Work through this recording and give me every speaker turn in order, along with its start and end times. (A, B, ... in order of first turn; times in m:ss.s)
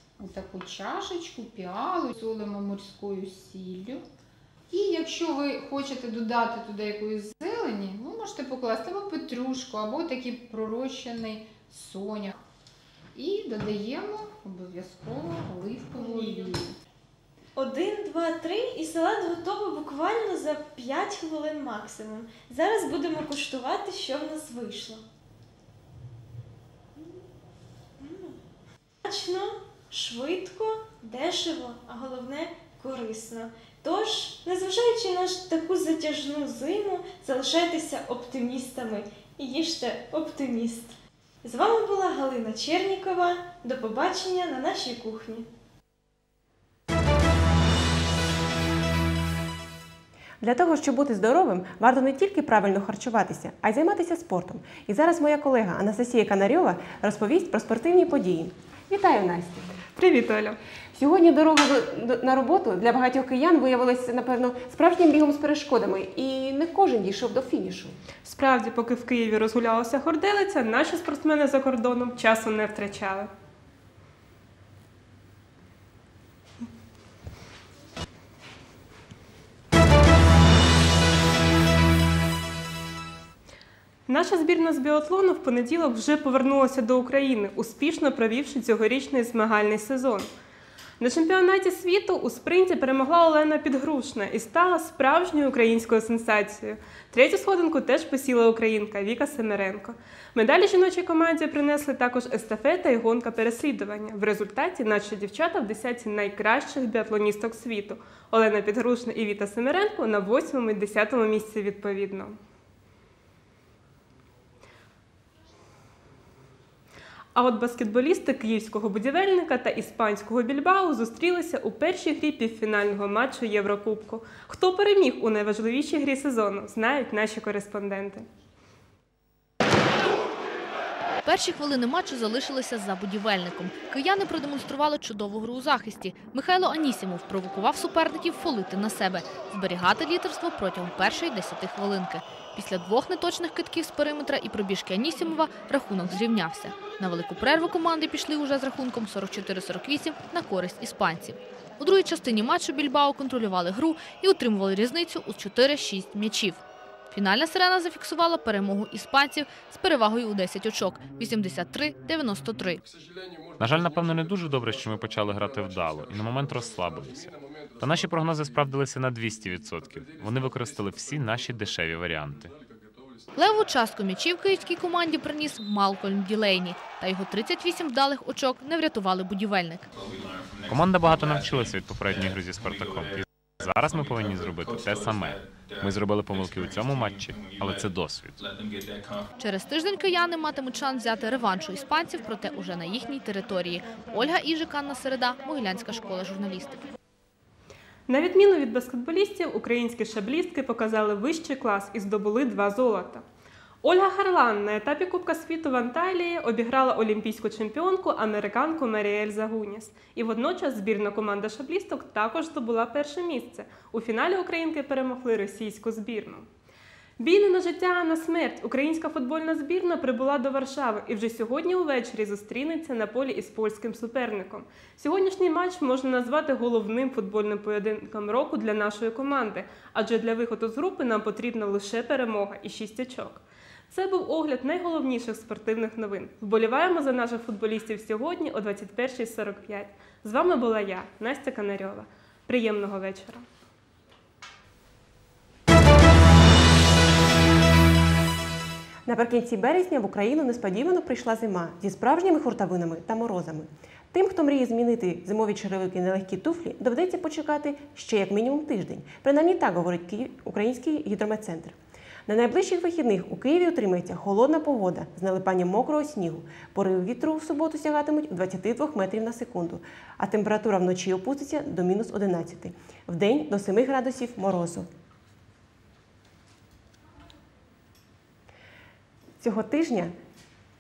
0:00.2-0:04.0 A
0:04.7-0:12.4 A
0:13.2-0:16.7 A
0:16.0-0:16.5 B
0:17.6-0:25.0 B
0:28.0-0:28.4 B
0:29.1-0:45.5 B
0:50.4-0:59.7 C
1:00.0-1:00.6 D
1:00.9-1:08.0 C
1:08.2-1:13.3 D
1:24.1-1:30.3 D
1:31.0-1:52.3 D
1:57.4-2:08.2 D
2:11.2-2:42.8 E
2:43.6-2:52.5 F
2:53.4-2:59.9 E
3:00.6-3:08.5 F
3:09.4-3:16.8 E
3:18.1-3:23.2 D
3:23.8-3:36.4 D
3:37.2-3:53.4 D
3:53.9-4:03.4 D
4:09.1-4:34.9 C
4:39.4-4:40.2 C